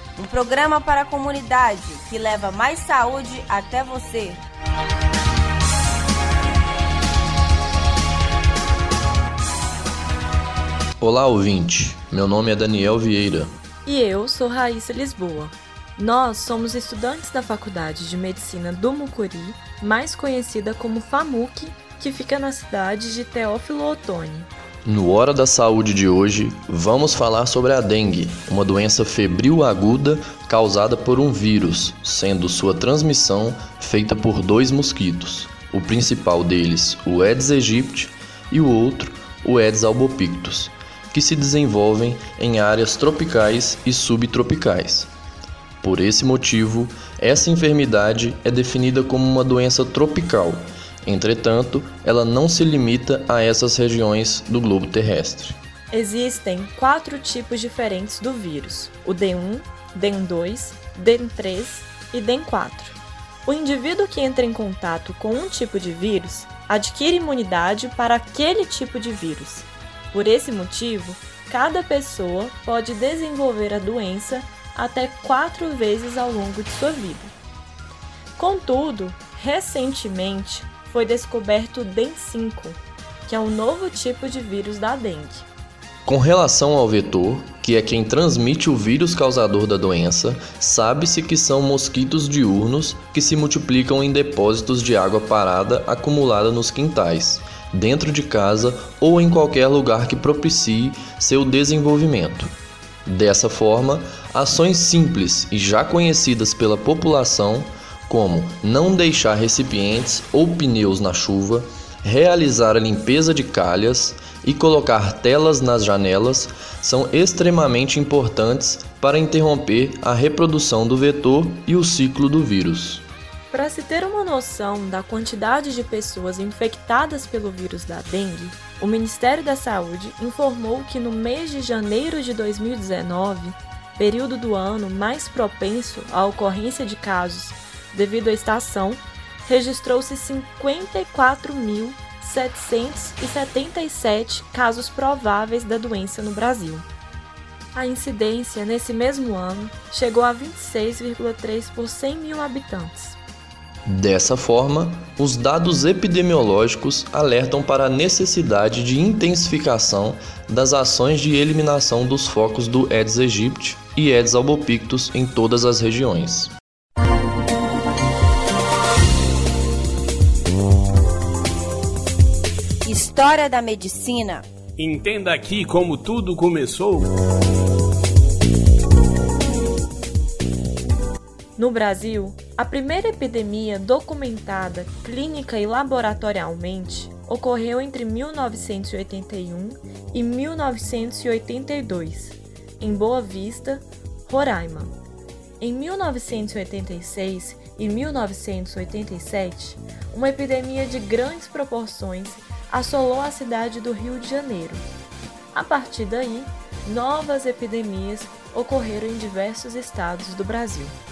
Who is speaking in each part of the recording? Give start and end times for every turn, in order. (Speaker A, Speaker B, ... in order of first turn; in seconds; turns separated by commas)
Speaker A: 0.1-4.4, Speaker B: 11.0-13.5, Speaker C: 13.8-24.5, Speaker B: 24.9-45.1, Speaker B: 45.8-55.6, Speaker C: 55.9-77.3, Speaker C: 78.3-85.5, Speaker B: 86.0-102.5, Speaker B: 103.0-123.0, Speaker C: 123.5-146.8, Speaker C: 147.7-153.2, Speaker B: 153.8-166.5, Speaker A: 172.8-174.4, Speaker D: 174.8-177.1, Speaker C: 181.6-194.9, Speaker C: 195.6-204.8, Speaker C: 205.5-210.9